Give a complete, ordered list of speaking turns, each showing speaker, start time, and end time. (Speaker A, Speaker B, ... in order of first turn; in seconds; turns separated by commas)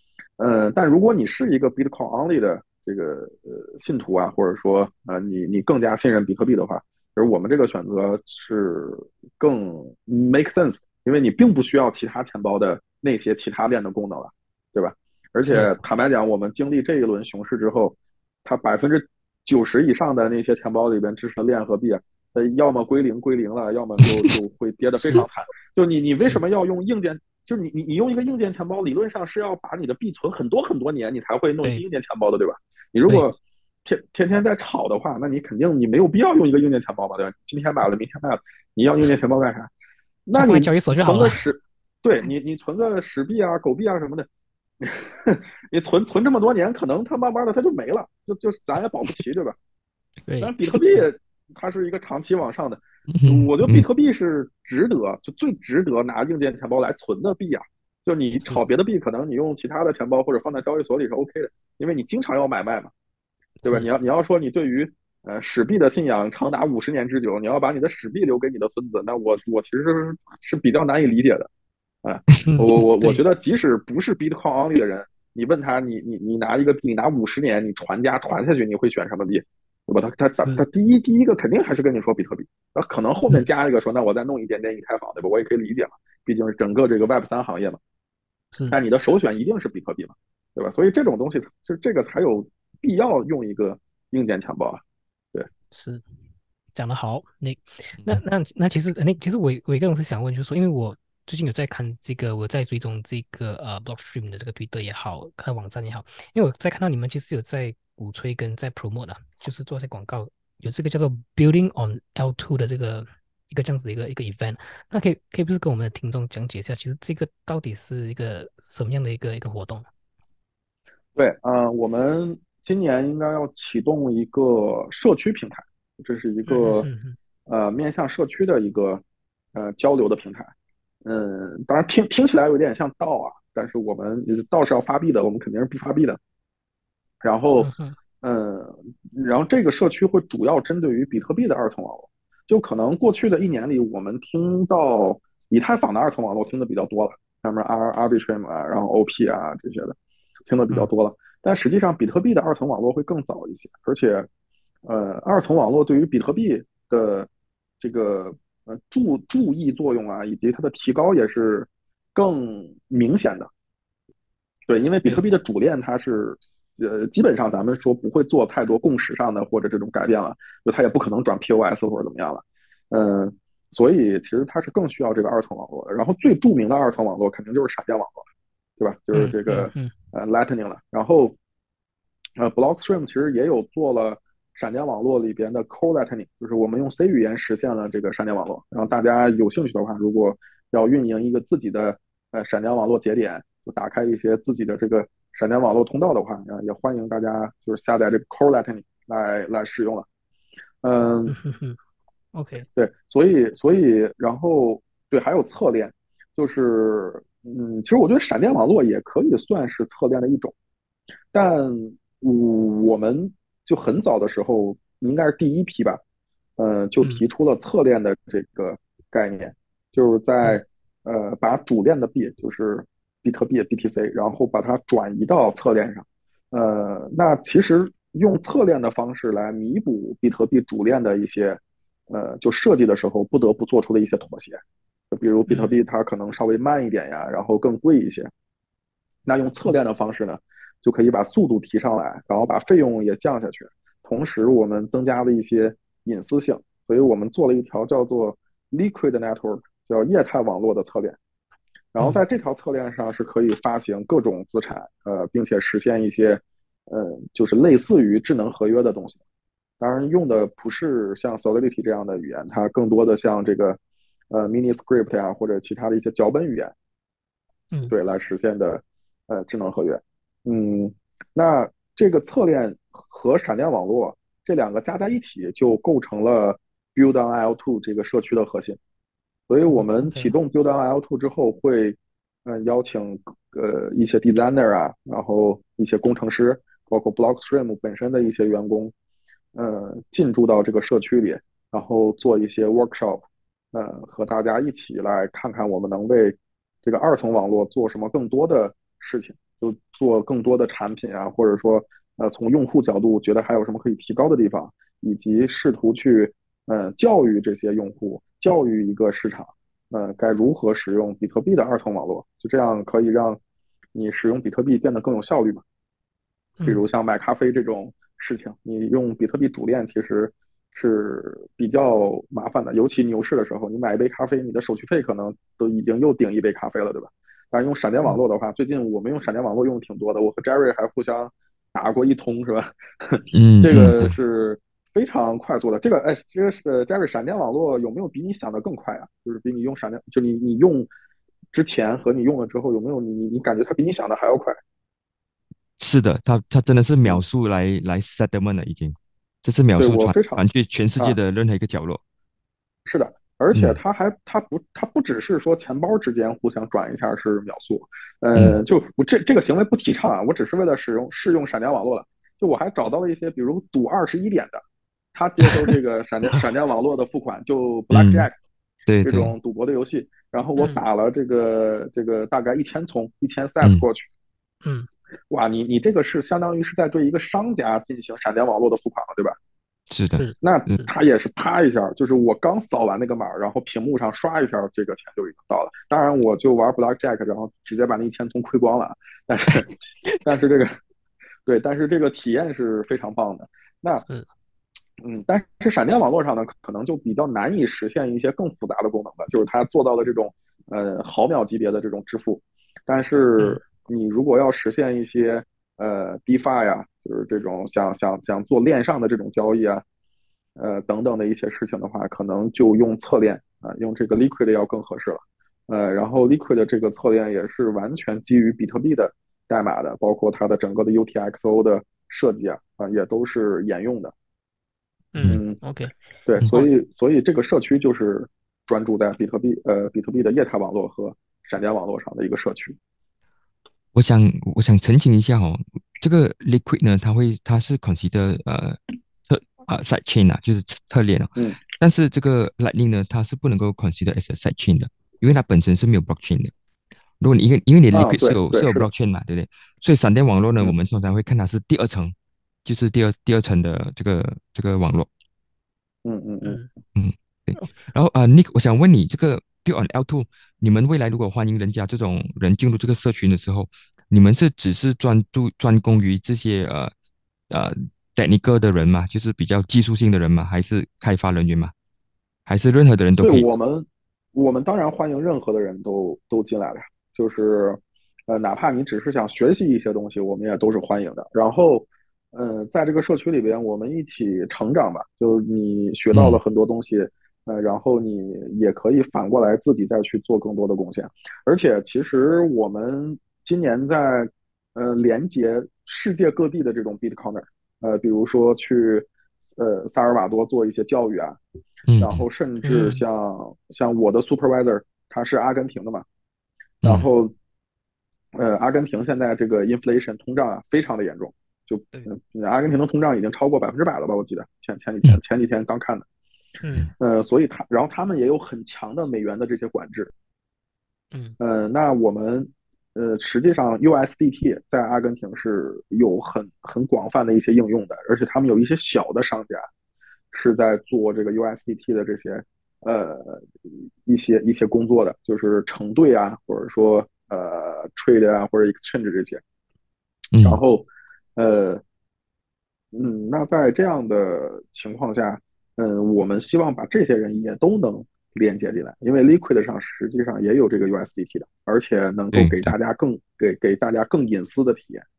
Speaker A: 0.4-39.7, Speaker B: 15.5-15.8, Speaker A: 40.3-44.3, Speaker B: 40.4-41.5, Speaker A: 44.8-49.6, Speaker B: 50.3-51.1, Speaker A: 50.4-62.9, Speaker C: 53.1-53.9, Speaker B: 63.6-63.9, Speaker A: 63.6-71.5, Speaker A: 72.0-87.8, Speaker B: 72.4-73.2, Speaker A: 88.7-94.8, Speaker B: 95.7-96.0, Speaker B: 96.7-119.9, Speaker A: 121.2-126.9, Speaker B: 126.5-127.2, Speaker A: 127.5-129.0, Speaker A: 129.5-130.5, Speaker A: 131.1-136.2, Speaker A: 137.2-137.7, Speaker B: 137.6-138.0, Speaker A: 138.2-150.0, Speaker A: 150.5-154.3, Speaker A: 154.8-157.3, Speaker A: 157.8-163.5, Speaker A: 164.7-178.2, Speaker A: 178.8-181.4, Speaker B: 179.1-179.9, Speaker A: 182.4-200.1, Speaker A: 200.8-201.3, Speaker B: 201.3-201.8, Speaker B: 202.3-202.7, Speaker A: 202.7-210.5, Speaker A: 211.3-216.0, Speaker A: 216.6-238.3, Speaker B: 235.5-235.8, Speaker A: 239.3-251.2, Speaker A: 251.9-259.2, Speaker A: 259.8-263.8, Speaker A: 264.3-266.7, Speaker A: 267.9-278.8, Speaker A: 279.5-288.9, Speaker B: 279.7-280.4, Speaker A: 289.6-313.4, Speaker A: 313.9-315.6, Speaker A: 316.6-340.9, Speaker C: 333.3-334.1, Speaker A: 341.5-344.6, Speaker C: 345.8-352.0, Speaker A: 349.8-350.4, Speaker A: 352.9-364.6, Speaker C: 353.5-353.8, Speaker A: 365.1-368.4, Speaker C: 367.9-368.3, Speaker C: 368.9-369.3, Speaker A: 369.0-374.1, Speaker B: 370.6-370.8, Speaker B: 374.6-374.9, Speaker A: 375.3-379.4, Speaker C: 379.9-380.7, Speaker B: 380.1-380.9, Speaker A: 380.4-390.8, Speaker A: 391.5-394.0, Speaker A: 395.0-409.8, Speaker A: 410.6-424.1, Speaker B: 425.1-425.9, Speaker A: 425.3-425.6, Speaker A: 426.3-432.8, Speaker C: 433.9-446.5, Speaker C: 447.2-452.1, Speaker A: 447.9-448.9, Speaker C: 452.6-455.1, Speaker A: 456.1-456.6, Speaker C: 456.9-466.9, Speaker C: 467.5-471.7, Speaker C: 472.5-473.5, Speaker A: 473.2-501.4, Speaker C: 486.1-486.4, Speaker C: 501.9-502.2, Speaker A: 502.0-506.1, Speaker B: 502.6-503.0, Speaker A: 506.8-507.3, Speaker A: 508.4-516.0, Speaker B: 516.6-516.9, Speaker A: 517.0-520.1, Speaker B: 521.1-521.4, Speaker A: 521.4-529.7, Speaker A: 530.3-533.5, Speaker A: 534.1-539.4, Speaker C: 540.3-540.6, Speaker A: 540.4-541.8, Speaker A: 542.9-555.0, Speaker C: 552.3-552.7